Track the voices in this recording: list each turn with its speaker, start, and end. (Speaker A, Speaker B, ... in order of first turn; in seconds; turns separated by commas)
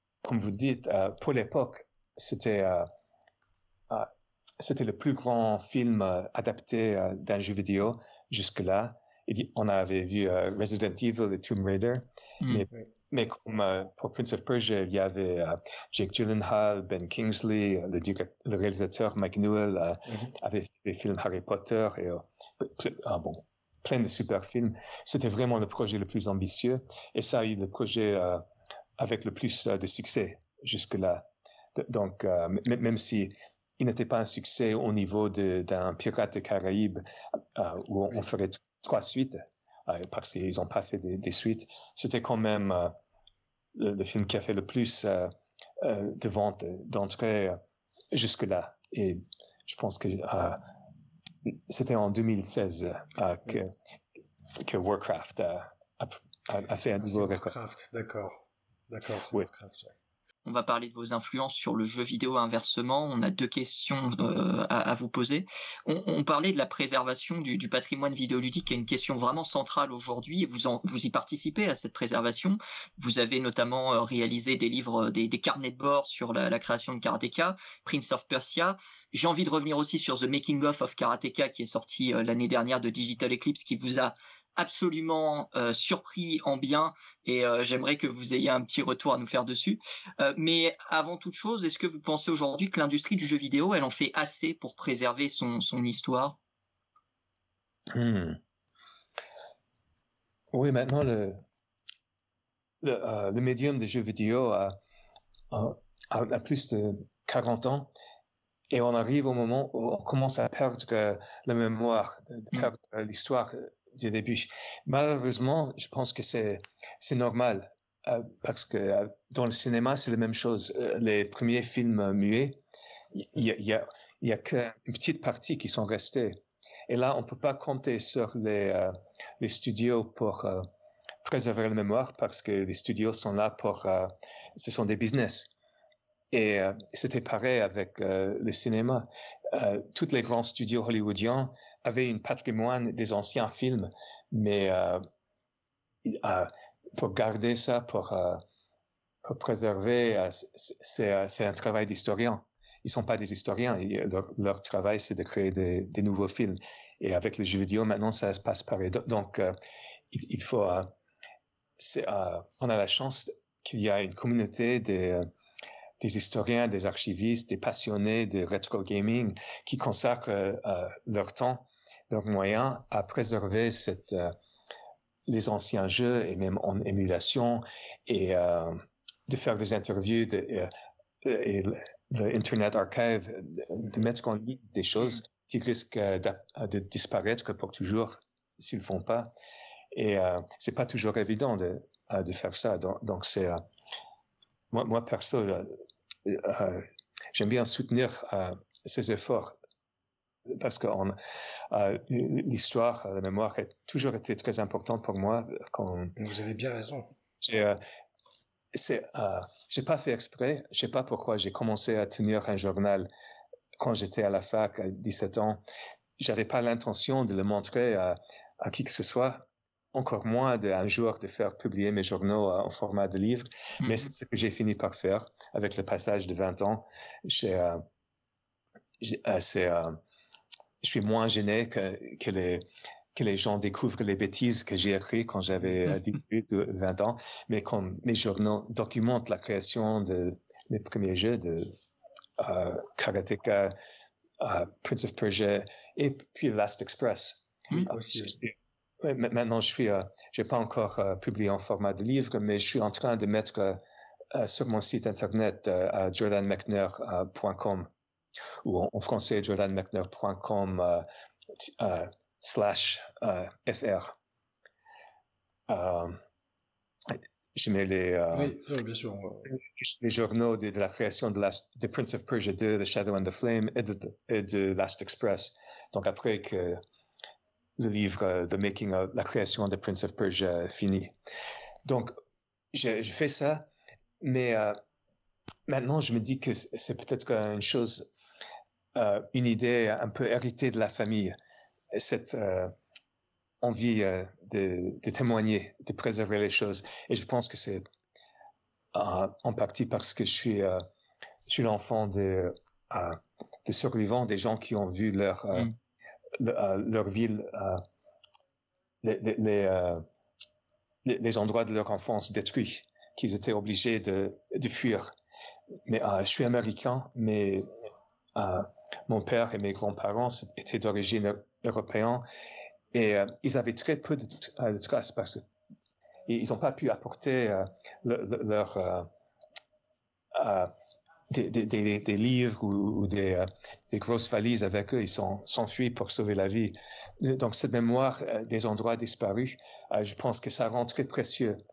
Speaker A: 0.2-2.9, Speaker A: 3.9-28.4, Speaker B: 20.1-20.4, Speaker A: 29.0-37.0, Speaker A: 37.5-43.0, Speaker A: 43.8-47.6, Speaker A: 48.1-50.6, Speaker A: 51.5-53.7, Speaker A: 54.6-57.5, Speaker B: 57.0-59.9, Speaker C: 60.5-96.4, Speaker A: 97.9-98.4, Speaker A: 100.5-101.4, Speaker A: 102.8-104.8, Speaker A: 105.5-107.9, Speaker A: 108.7-122.6, Speaker A: 123.1-130.7, Speaker A: 131.2-135.5, Speaker A: 136.3-145.1, Speaker A: 146.1-148.4, Speaker A: 149.2-159.5, Speaker A: 160.1-160.9, Speaker A: 161.8-165.3, Speaker A: 166.0-174.3, Speaker A: 175.3-180.7, Speaker A: 181.2-189.3, Speaker A: 189.9-193.6, Speaker A: 194.7-199.6, Speaker A: 200.5-201.2, Speaker A: 201.7-206.2, Speaker B: 206.2-207.1, Speaker A: 207.4-207.8, Speaker A: 208.7-213.1, Speaker A: 213.8-215.6, Speaker A: 216.2-219.4, Speaker A: 219.9-227.8, Speaker C: 223.8-224.1, Speaker A: 229.0-230.0, Speaker A: 230.8-241.8, Speaker A: 242.4-243.8, Speaker A: 244.4-257.9, Speaker B: 247.7-248.4, Speaker A: 258.6-264.1, Speaker A: 265.7-266.2, Speaker A: 267.1-268.6, Speaker B: 268.3-269.5, Speaker A: 269.5-276.8, Speaker A: 277.8-281.1, Speaker A: 281.9-282.2, Speaker A: 282.7-283.7, Speaker A: 284.2-284.8, Speaker A: 285.7-288.1, Speaker A: 288.9-291.4, Speaker A: 291.9-292.7, Speaker A: 293.6-297.8, Speaker A: 298.9-300.9, Speaker A: 301.5-305.7, Speaker A: 306.4-307.8, Speaker A: 309.0-310.1, Speaker A: 311.1-315.1, Speaker A: 315.9-317.7, Speaker A: 318.4-322.2, Speaker A: 322.9-325.4, Speaker A: 326.3-329.1, Speaker A: 330.3-330.7, Speaker A: 331.3-341.6